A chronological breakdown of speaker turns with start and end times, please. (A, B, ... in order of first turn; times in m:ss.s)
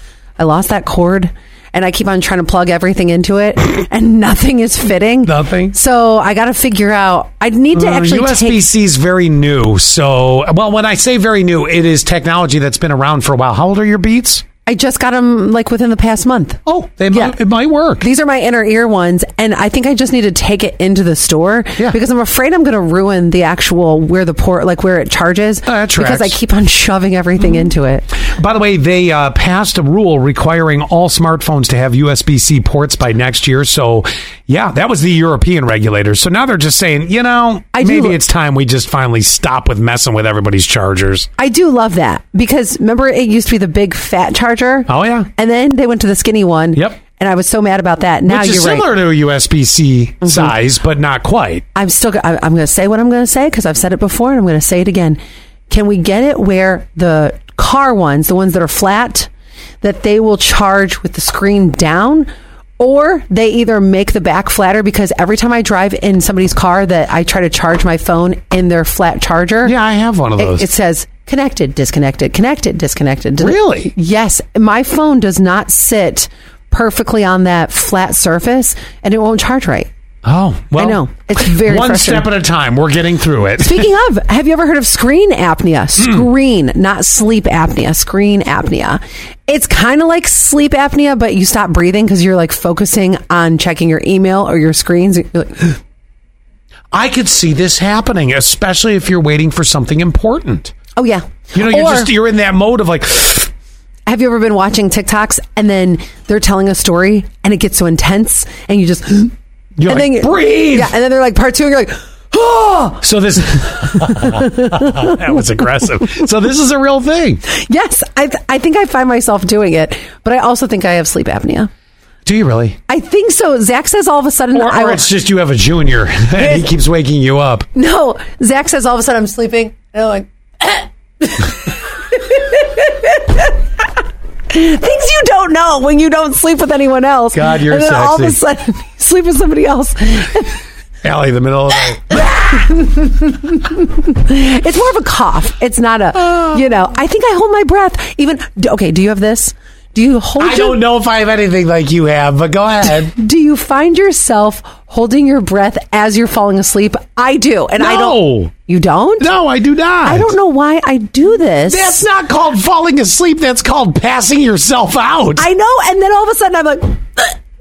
0:00.4-0:08.6 A
0:05.3-0:05.8 B
0:07.7-0:14.4 B
0:14.7-0:16.6 A
0:16.7-0:18.0 B
0:18.0-0:28.1 A
0:25.7-0:26.4 B
0:28.2-0:41.3 B
0:37.7-0:38.2 A
0:41.4-0:48.9 A
0:44.9-0:45.3 B
0:48.3-0:51.6 B
0:50.3-0:50.5 A
0:51.8-0:59.3 A
0:59.8-1:02.3 A
1:02.8-1:09.7 A
1:09.6-1:10.6 B
1:10.4-1:19.9 A
1:13.4-1:13.9 B
1:20.2-1:23.9 B
1:20.8-1:22.3 A
1:23.6-1:35.8 A
1:36.9-1:40.7 B
1:41.0-1:42.1 A
1:41.5-1:43.5 B
1:44.1-1:49.3 A
1:49.8-1:50.9 B
1:49.9-1:53.0 A
1:53.0-1:57.4 B
1:54.0-1:55.2 A
1:57.5-2:01.7 A
2:02.2-2:02.8 B
2:02.9-2:05.1 A
2:04.6-2:07.7 B
2:07.8-2:13.9 A
2:14.5-2:20.6 A
2:17.3-2:18.4 B
2:21.0-2:22.2 B
2:22.1-2:30.8 A
2:30.4-2:33.2 B
2:33.2-2:39.3 A
2:37.8-2:38.5 B
2:39.2-2:40.3 B
2:40.0-2:42.0 A
2:41.7-2:45.5 B
2:45.4-2:47.4 A